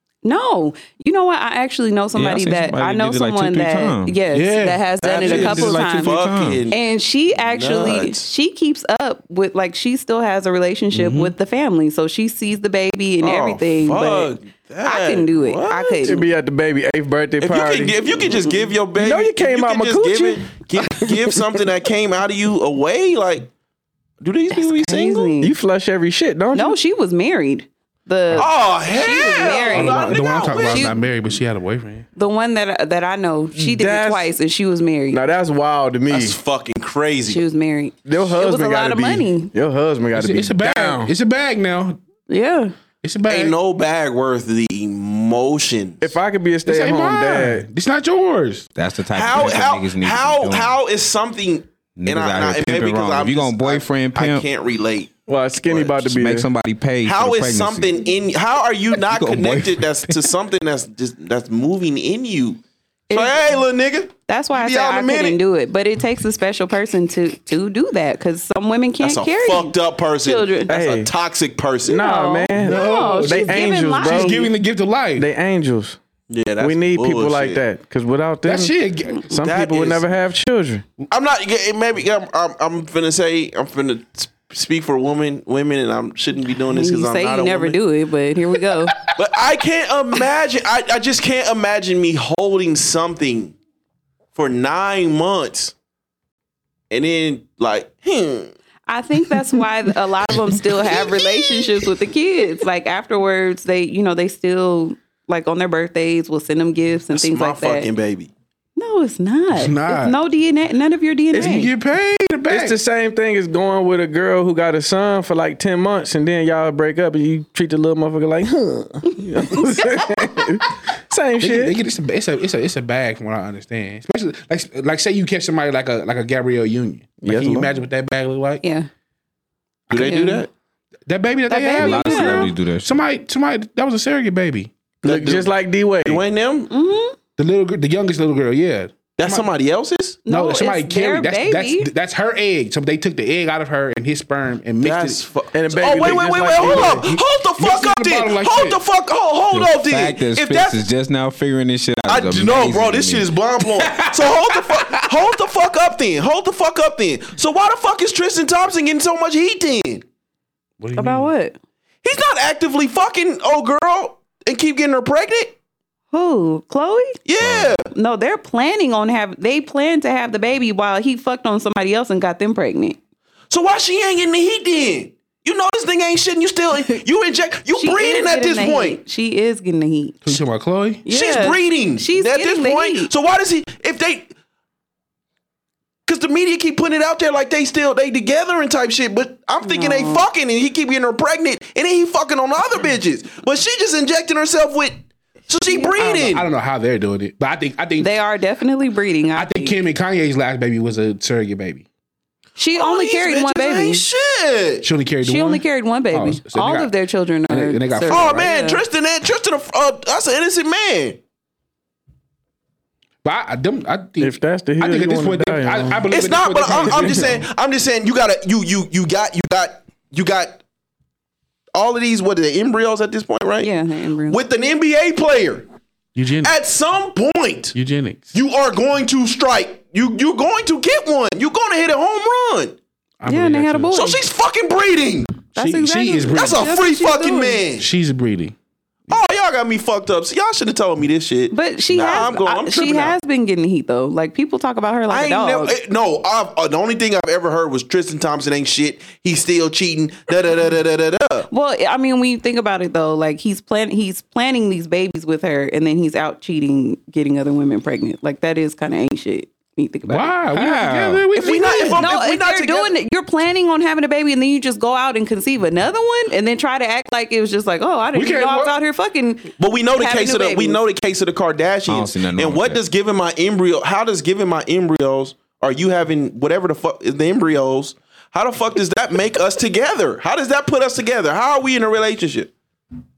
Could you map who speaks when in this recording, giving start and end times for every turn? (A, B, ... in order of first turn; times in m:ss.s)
0:00.2-0:16.3 A
0:02.1-0:04.2 B
0:04.3-0:04.8 C
0:05.0-0:06.8 D
0:05.2-0:06.6 B
0:07.4-0:08.3 D
0:10.9-0:11.4 C
0:13.2-0:16.2 D
0:16.0-0:18.3 E
0:17.4-0:23.5 D
0:19.0-0:21.5 E
0:24.2-0:25.3 D
0:24.5-0:25.6 A
0:25.4-0:26.8 E
0:26.5-0:31.0 A
0:28.3-0:31.0 D
0:29.7-0:32.1 C
0:32.2-0:35.2 A
0:33.6-0:34.3 E
0:35.1-0:36.4 E
0:36.1-0:37.4 D
0:37.3-0:39.5 A
0:38.0-0:41.1 E
0:40.2-0:42.0 C
0:42.3-0:42.7 A
0:43.0-0:43.6 C
0:43.3-0:46.1 D
0:46.0-0:47.7 E
0:46.6-0:48.7 C
0:48.8-0:50.8 B
0:49.1-0:56.0 D
0:52.0-0:54.5 B
0:55.3-0:56.5 E
0:56.0-0:57.9 B
0:57.0-1:05.4 D
0:59.0-1:00.1 B
1:03.1-1:03.4 A
1:04.3-1:10.7 A
1:09.0-1:12.0 D
1:10.7-1:11.1 E
1:11.9-1:14.5 E
1:11.9-1:14.5 A
1:12.6-1:15.3 C
1:15.2-1:16.0 E
1:16.3-1:17.6 D
1:16.6-1:18.7 E
1:18.4-1:19.3 C
1:19.3-1:20.8 E
1:19.3-1:20.1 D
1:21.1-1:27.8 D
1:26.6-1:29.1 A
1:29.0-1:33.6 D
1:34.4-1:35.8 D
1:36.9-1:38.6 D
1:38.9-1:47.9 A
1:47.1-1:48.3 D
1:48.8-1:51.7 A
1:49.5-1:50.2 C
1:51.3-1:51.7 E
1:51.3-1:52.8 C
1:52.5-2:01.8 E
2:01.4-2:08.6 C
2:07.2-2:07.7 E
2:08.6-2:08.9 A
2:09.9-2:10.5 D
2:09.9-2:10.5 A
2:11.1-2:14.7 C
2:11.5-2:12.5 A
2:11.8-2:13.0 B
2:15.0-2:15.5 D
2:15.0-2:16.2 E
2:16.0-2:16.7 D
2:16.7-2:17.2 A
2:17.4-2:19.0 C
2:19.2-2:20.2 D
2:20.2-2:21.9 A
2:20.3-2:25.2 C
2:24.8-2:30.9 D
2:25.5-2:27.1 E
2:26.6-2:28.8 C
2:29.5-2:34.8 B
2:32.1-2:40.0 D
2:40.8-2:41.3 C
2:41.0-2:41.6 A
2:42.0-2:45.6 D
2:46.1-2:47.2 A
2:47.2-2:47.9 D
2:47.4-2:47.7 C
2:47.9-2:53.0 A
2:53.5-2:59.0 D
2:57.7-3:00.3 A
3:00.2-3:01.0 C
3:01.1-3:03.1 A
3:01.1-3:04.3 D
3:06.1-3:16.4 D
3:09.6-3:10.3 A
3:15.7-3:16.4 A
3:16.0-3:18.1 C
3:18.0-3:19.8 A
3:19.4-3:21.9 C
3:22.6-3:24.0 A
3:22.8-3:24.9 D
3:24.8-3:26.9 C
3:25.2-3:28.8 A
3:27.5-3:28.5 C
3:28.1-3:31.2 D
3:33.2-3:37.5 C
3:34.2-3:36.0 E
3:36.1-3:40.6 D
3:41.7-3:43.7 D
3:43.6-3:44.4 A
3:44.3-3:45.7 D
3:46.2-3:46.5 C
3:46.4-3:47.8 D
3:47.7-3:48.3 C
3:48.3-3:52.8 D
3:53.2-3:54.0 C
3:53.3-3:54.3 A
3:53.9-3:55.5 D
3:55.5-3:57.6 A
3:55.6-3:56.7 C
3:56.3-3:57.9 D
3:57.8-3:58.6 C
3:59.1-4:03.2 D
4:01.5-4:05.8 A
4:05.1-4:11.5 D
4:11.5-4:20.4 A
4:20.1-4:22.1 C
4:20.5-4:21.4 B
4:21.4-4:22.9 D
4:21.4-4:30.8 A
4:28.1-4:28.8 C
4:29.6-4:42.5 D
4:31.9-4:32.8 B